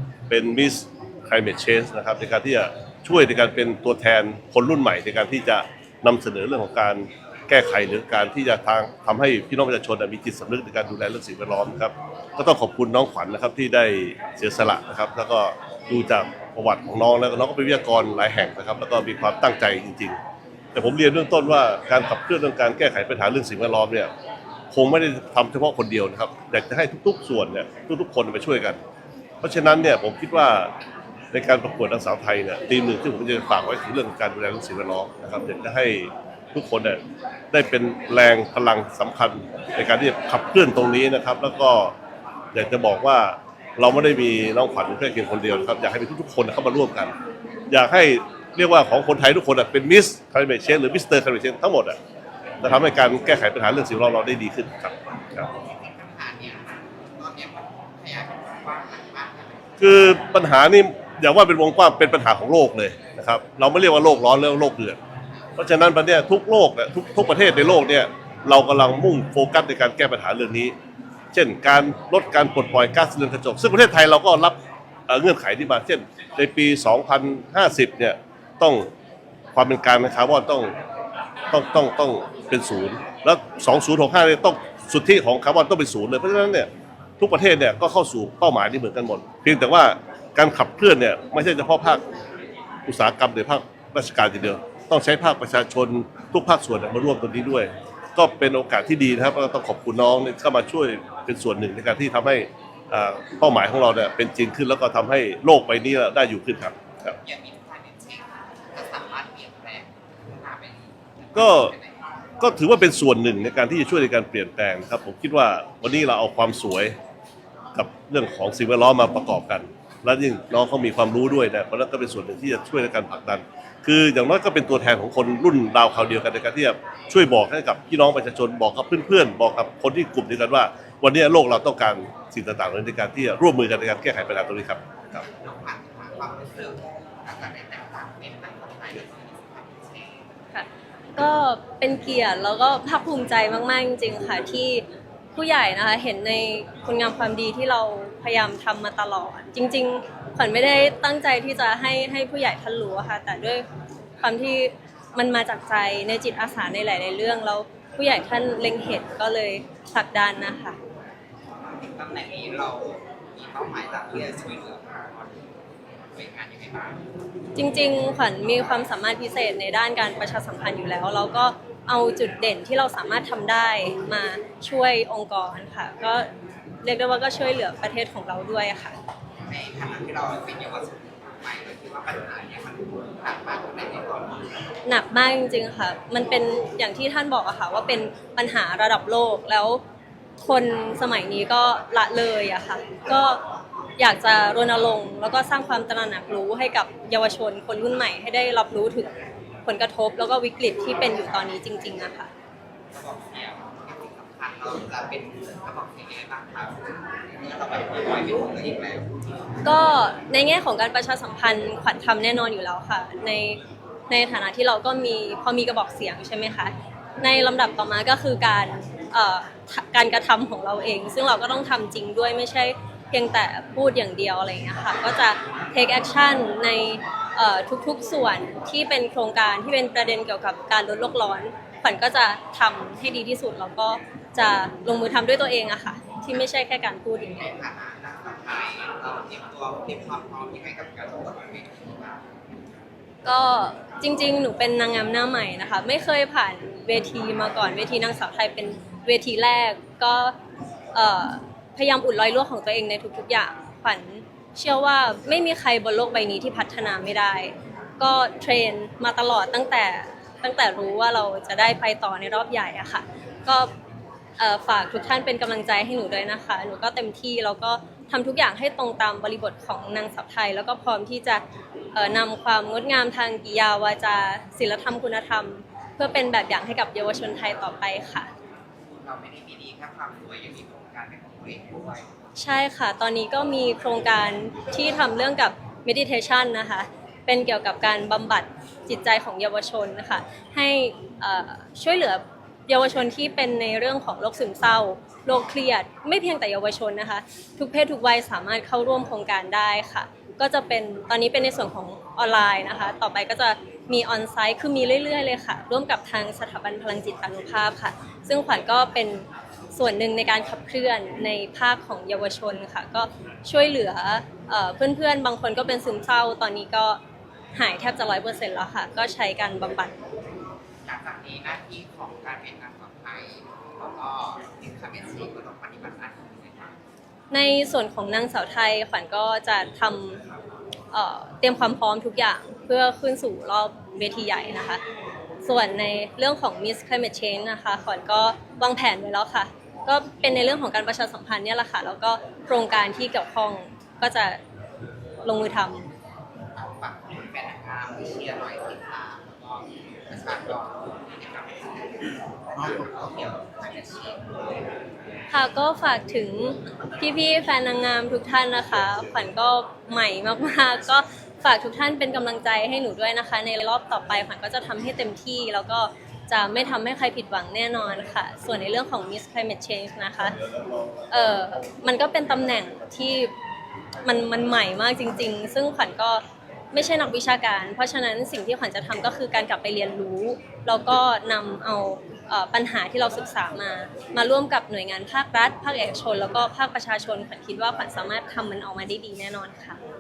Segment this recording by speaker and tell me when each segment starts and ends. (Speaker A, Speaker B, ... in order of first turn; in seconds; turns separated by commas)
Speaker A: 0.3-20.2, Speaker A: 20.8-24.1, Speaker A: 24.7-28.8, Speaker A: 29.4-30.7, Speaker A: 31.3-37.0, Speaker A: 37.5-41.9, Speaker A: 42.5-47.1, Speaker A: 47.7-52.0, Speaker A: 52.6-55.5, Speaker B: 55.5-59.8, Speaker A: 59.8-65.0, Speaker A: 65.6-70.8, Speaker A: 71.3-74.6, Speaker A: 75.1-78.9, Speaker A: 79.5-80.7, Speaker A: 81.5-86.7, Speaker A: 87.2-92.0, Speaker A: 92.9-107.2, Speaker B: 107.2-112.0, Speaker A: 111.3-111.7, Speaker A: 112.4-117.0, Speaker A: 117.8-135.2, Speaker B: 135.3-140.3, Speaker C: 140.5-144.8, Speaker C: 145.4-153.7, Speaker C: 154.2-160.8, Speaker B: 161.6-165.4, Speaker B: 166.0-167.0, Speaker C: 167.6-176.3, Speaker C: 176.8-179.0, Speaker B: 179.5-184.6, Speaker C: 184.9-189.8, Speaker C: 190.4-193.4, Speaker C: 194.0-199.1, Speaker C: 199.7-202.3, Speaker B: 202.9-206.8, Speaker B: 207.4-209.1, Speaker C: 209.7-213.6, Speaker C: 214.1-237.5, Speaker B: 237.4-242.2, Speaker C: 243.2-250.3, Speaker C: 250.9-263.7, Speaker C: 264.4-271.4, Speaker C: 271.9-278.3, Speaker B: 278.9-282.1, Speaker C: 282.4-317.0, Speaker C: 317.6-319.9, Speaker B: 320.9-326.8, Speaker C: 327.3-330.2, Speaker C: 330.9-334.8, Speaker C: 335.4-344.4, Speaker C: 345.2-345.9, Speaker B: 346.6-354.2, Speaker C: 355.3-370.4, Speaker A: 370.2-371.1, Speaker C: 371.1-373.3, Speaker C: 374.0-376.2, Speaker C: 376.7-389.8